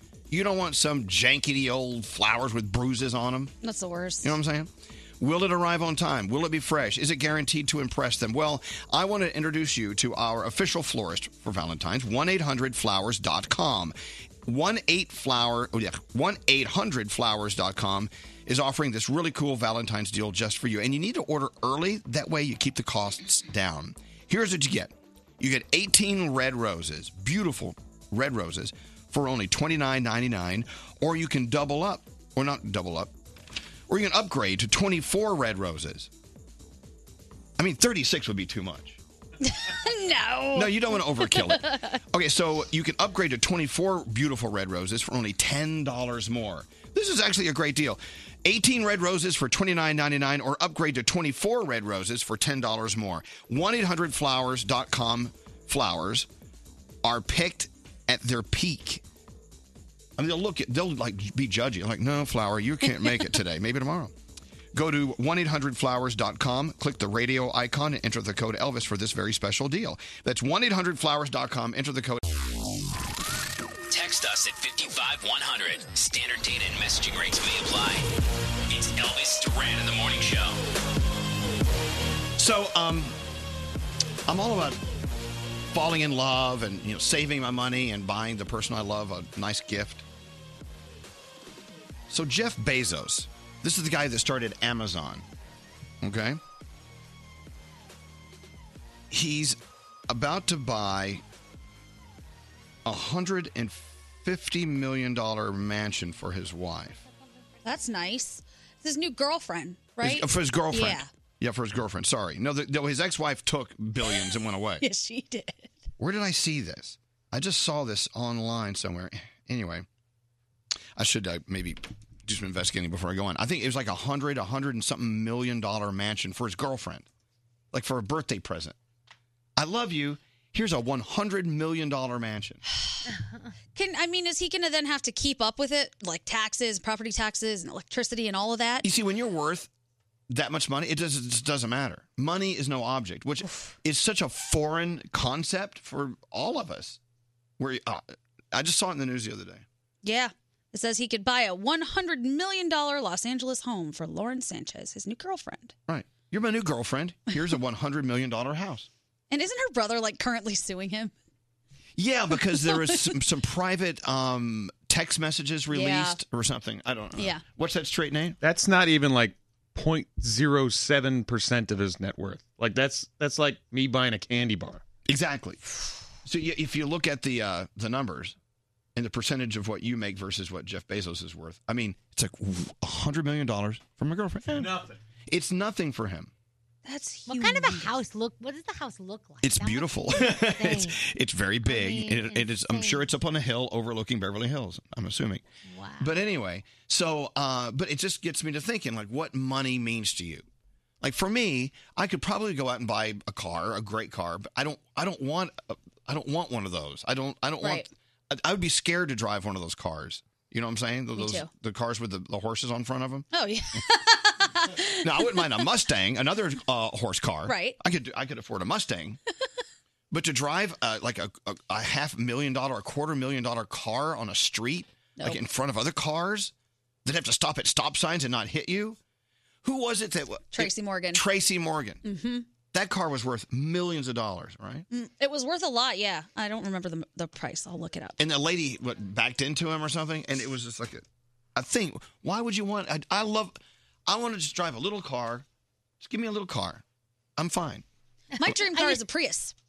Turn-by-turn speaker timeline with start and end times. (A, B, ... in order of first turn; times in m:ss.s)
0:00.3-0:03.5 A
0:03.6-0:04.3 B
0:04.2-0:33.1 A
0:33.9-0:36.1 A
0:37.6-0:39.0 A
0:39.4-0:41.8 B
0:40.5-0:56.3 A
0:57.0-0:59.0 A
1:00.2-1:04.1 A
1:04.7-1:12.2 A
1:13.9-1:18.1 C
1:18.7-1:20.6 C
1:22.4-1:23.2 A
1:24.3-1:24.8 A
1:25.7-1:30.0 A
1:32.1-1:35.3 A
1:36.0-1:36.4 A
1:39.1-1:39.6 A
1:40.1-1:41.2 A
1:42.8-1:47.0 A
1:47.6-1:51.1 B
1:50.0-1:54.8 A
1:54.8-1:55.7 B
1:56.0-1:59.9 A
2:01.0-2:07.1 A
2:07.7-2:08.8 A
2:09.6-2:12.6 A
2:13.8-2:18.9 B
2:18.8-2:19.7 A
2:20.3-2:27.0 A
2:27.6-2:29.6 A
2:30.0-2:35.8 B
2:35.9-2:38.9 A
2:39.3-2:41.1 B
2:42.0-2:48.4 A
2:42.5-2:43.0 B
2:45.7-2:46.2 B
2:47.2-2:47.4 B
2:48.4-2:54.8 D
2:55.1-2:55.6 A
2:56.2-2:58.4 A
2:59.0-3:04.8 A
3:05.3-3:06.3 A
3:06.8-3:08.0 B
3:07.3-3:11.0 E
3:09.4-3:15.4 A
3:11.6-3:13.1 E
3:15.6-3:16.2 E
3:16.0-3:20.5 A
3:21.0-3:33.3 A
3:27.6-3:27.9 B
3:31.2-3:31.5 B
3:33.3-3:35.5 B
3:35.0-3:39.2 A
3:37.5-3:37.8 B
3:40.1-3:46.5 A
3:47.0-3:49.0 A
3:49.6-3:52.0 A
3:50.5-3:51.2 B
3:52.0-3:52.5 B
3:52.7-3:54.9 A
3:54.9-3:58.2 B
3:58.2-4:05.5 A
4:06.0-4:06.8 A
4:07.4-4:07.8 A
4:08.3-4:09.0 E
4:08.4-4:09.5 B